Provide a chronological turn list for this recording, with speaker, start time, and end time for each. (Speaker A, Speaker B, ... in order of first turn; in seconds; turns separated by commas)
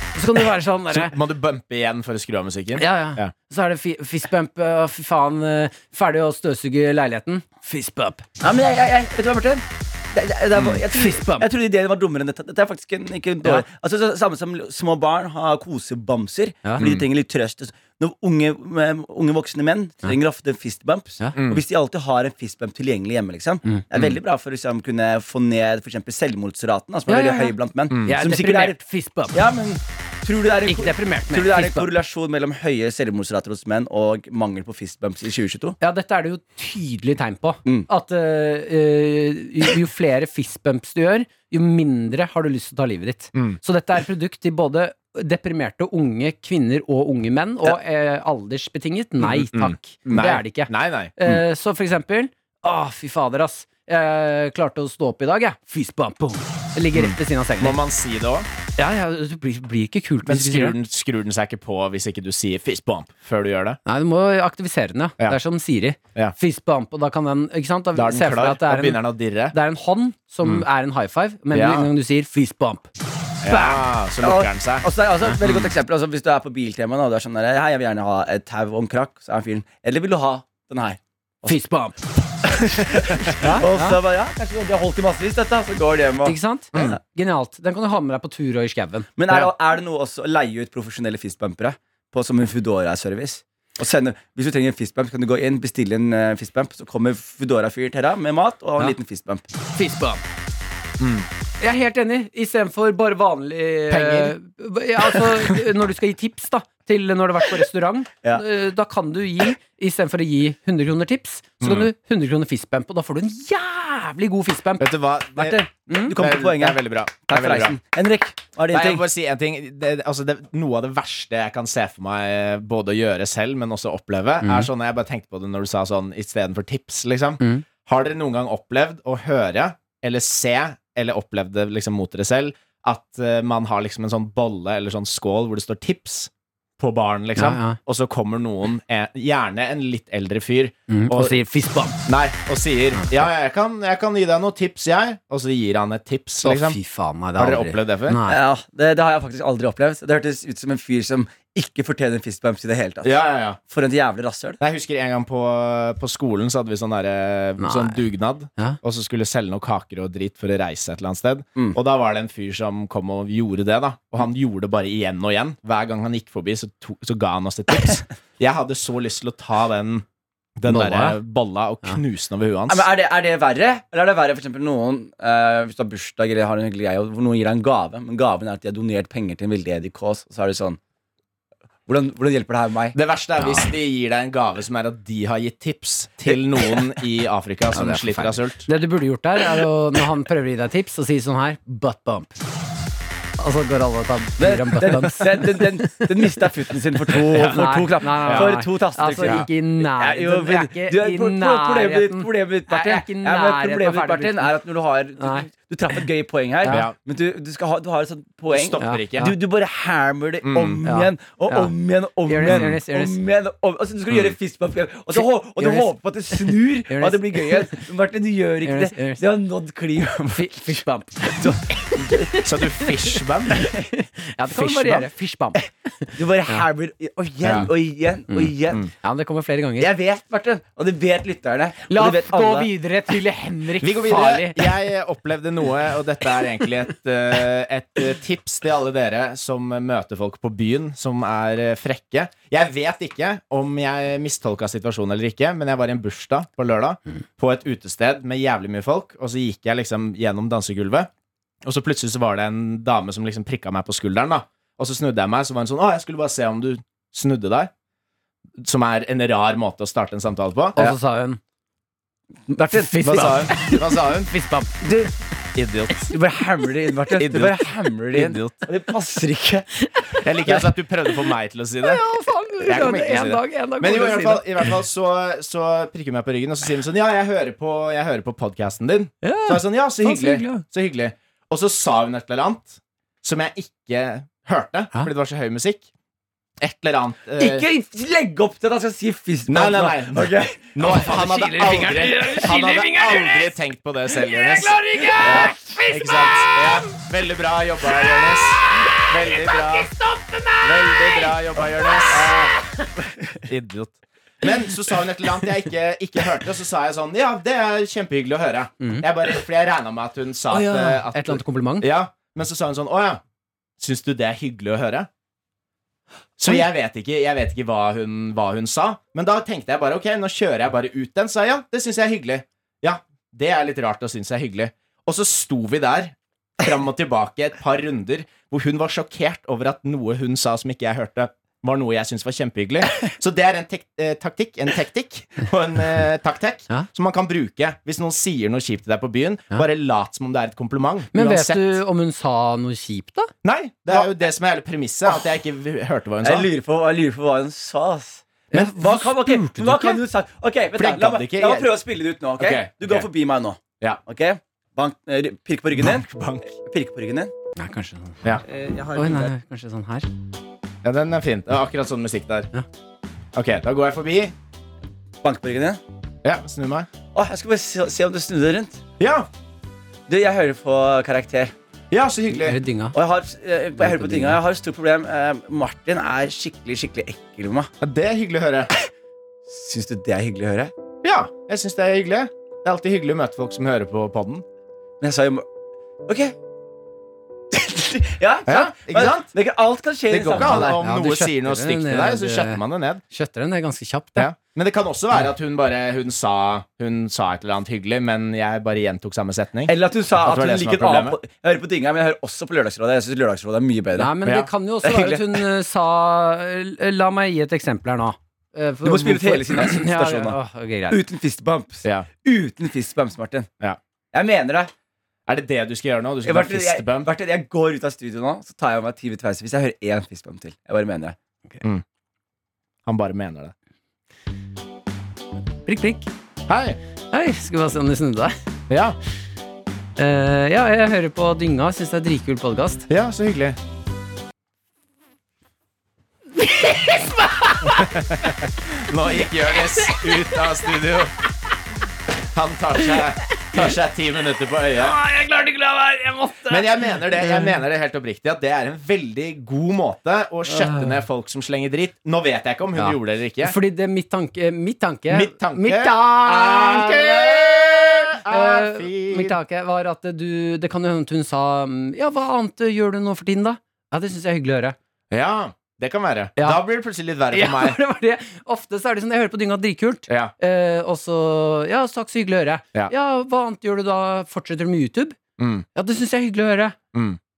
Speaker A: 0.1-1.1, Speaker B: 0.9-3.3, Speaker A: 2.8-8.2, Speaker C: 8.4-28.8, Speaker A: 10.9-11.5, Speaker A: 16.6-16.9, Speaker B: 16.8-17.0, Speaker B: 21.4-21.6, Speaker A: 27.1-29.4, Speaker C: 29.3-35.8, Speaker A: 30.7-31.9, Speaker A: 35.8-57.8, Speaker B: 49.2-51.4, Speaker B: 56.9-58.5, Speaker A: 58.8-60.8, Speaker B: 60.2-63.8, Speaker A: 63.9-72.9, Speaker B: 67.9-69.5, Speaker B: 71.5-71.9, Speaker B: 73.4-74.9, Speaker A: 73.4-73.8, Speaker C: 74.2-81.6, Speaker B: 75.4-75.7, Speaker A: 81.4-82.0, Speaker C: 82.4-86.9, Speaker B: 83.3-83.6, Speaker A: 83.5-84.0, Speaker A: 86.2-89.1, Speaker C: 89.2-99.4, Speaker A: 99.7-100.2, Speaker B: 101.0-101.3, Speaker A: 101.6-114.9, Speaker B: 103.9-104.3, Speaker B: 111.6-111.9, Speaker B: 114.8-115.6, Speaker C: 115.4-119.0, Speaker A: 115.9-116.1, Speaker B: 116.1-117.8, Speaker B: 118.7-141.4, Speaker A: 124.4-124.7, Speaker A: 137.3-137.8, Speaker A: 140.9-142.1, Speaker B: 142.1-146.8, Speaker A: 146.4-148.4, Speaker B: 147.4-148.2, Speaker C: 148.3-153.2, Speaker B: 153.0-153.6, Speaker C: 153.7-154.6, Speaker B: 154.6-170.0, Speaker A: 157.6-158.0, Speaker B: 170.6-172.9, Speaker A: 170.7-171.2, Speaker C: 172.7-180.8, Speaker C: 181.9-183.0, Speaker B: 182.9-188.7, Speaker A: 183.4-183.7, Speaker C: 186.2-186.8, Speaker C: 187.7-188.1, Speaker A: 188.6-192.3, Speaker A: 193.4-196.4, Speaker C: 194.4-222.4, Speaker A: 197.1-204.5, Speaker B: 197.3-197.6, Speaker B: 198.3-198.5, Speaker A: 205.2-206.0, Speaker A: 206.6-206.9, Speaker B: 206.7-206.9, Speaker B: 208.5-209.3, Speaker A: 208.8-209.3, Speaker B: 210.4-210.8, Speaker A: 210.8-211.7, Speaker A: 212.2-213.2, Speaker B: 212.4-212.8, Speaker A: 215.1-217.8, Speaker A: 218.6-219.2, Speaker A: 220.3-222.9, Speaker B: 222.4-223.6, Speaker A: 223.5-225.6, Speaker C: 223.6-223.9, Speaker C: 224.6-225.1, Speaker C: 225.6-228.8, Speaker B: 227.4-227.7, Speaker A: 228.3-229.9, Speaker C: 229.8-232.7, Speaker A: 231.9-234.7, Speaker B: 233.8-251.1, Speaker B: 251.6-257.7, Speaker B: 258.6-260.8, Speaker A: 260.8-261.4, Speaker C: 262.5-263.5, Speaker A: 262.7-264.9, Speaker B: 263.0-264.3, Speaker C: 264.8-265.1, Speaker B: 265.5-266.0, Speaker C: 266.1-269.7, Speaker B: 267.1-268.6, Speaker A: 269.8-270.7, Speaker B: 270.2-272.0, Speaker A: 271.8-274.7, Speaker B: 272.6-285.9, Speaker A: 279.2-280.6, Speaker B: 286.6-287.6, Speaker C: 287.4-290.8, Speaker B: 289.5-299.9, Speaker A: 290.8-293.6, Speaker A: 294.1-296.9, Speaker A: 297.9-302.9, Speaker B: 300.6-302.6, Speaker B: 303.4-313.2, Speaker A: 310.5-311.9, Speaker B: 313.8-315.1, Speaker B: 316.4-341.8, Speaker A: 341.1-343.3, Speaker B: 343.4-346.5, Speaker C: 346.2-357.3, Speaker A: 348.5-350.0, Speaker B: 350.7-351.7, Speaker B: 352.4-353.1, Speaker B: 355.8-356.5, Speaker A: 357.6-358.2, Speaker C: 358.4-359.3, Speaker A: 358.9-360.1, Speaker B: 360.8-362.5, Speaker B: 363.3-364.3, Speaker C: 365.2-365.8, Speaker B: 366.2-366.9, Speaker C: 367.1-368.8, Speaker B: 369.0-369.3, Speaker C: 370.1-371.5, Speaker B: 371.9-372.6, Speaker A: 372.4-372.9, Speaker C: 372.9-377.7, Speaker A: 373.8-374.4, Speaker B: 377.8-378.7, Speaker C: 379.5-380.7, Speaker B: 381.0-384.4, Speaker C: 385.0-385.4, Speaker C: 386.1-386.3, Speaker C: 387.5-390.8, Speaker B: 388.4-389.3, Speaker B: 390.1-393.0, Speaker A: 390.3-394.3, Speaker B: 394.1-401.2, Speaker C: 399.7-404.1, Speaker A: 403.9-411.0, Speaker C: 404.9-405.2, Speaker C: 408.8-410.4, Speaker C: 410.9-413.5, Speaker C: 414.1-414.7, Speaker B: 415.3-417.1, Speaker C: 416.2-421.1, Speaker B: 422.9-423.5, Speaker A: 425.6-426.1, Speaker B: 426.5-426.8, Speaker A: 427.1-428.3, Speaker B: 428.7-429.0, Speaker A: 430.0-432.9, Speaker B: 432.9-433.6, Speaker A: 436.4-438.4, Speaker B: 437.6-441.1, Speaker A: 439.5-440.1, Speaker B: 442.3-445.0, Speaker A: 444.8-447.6, Speaker B: 446.5-453.5, Speaker A: 450.5-450.9, Speaker A: 452.8-464.8, Speaker B: 455.1-459.4, Speaker B: 465.1-467.8, Speaker A: 467.3-475.2, Speaker B: 470.1-470.3, Speaker B: 475.4-475.6, Speaker A: 475.7-476.8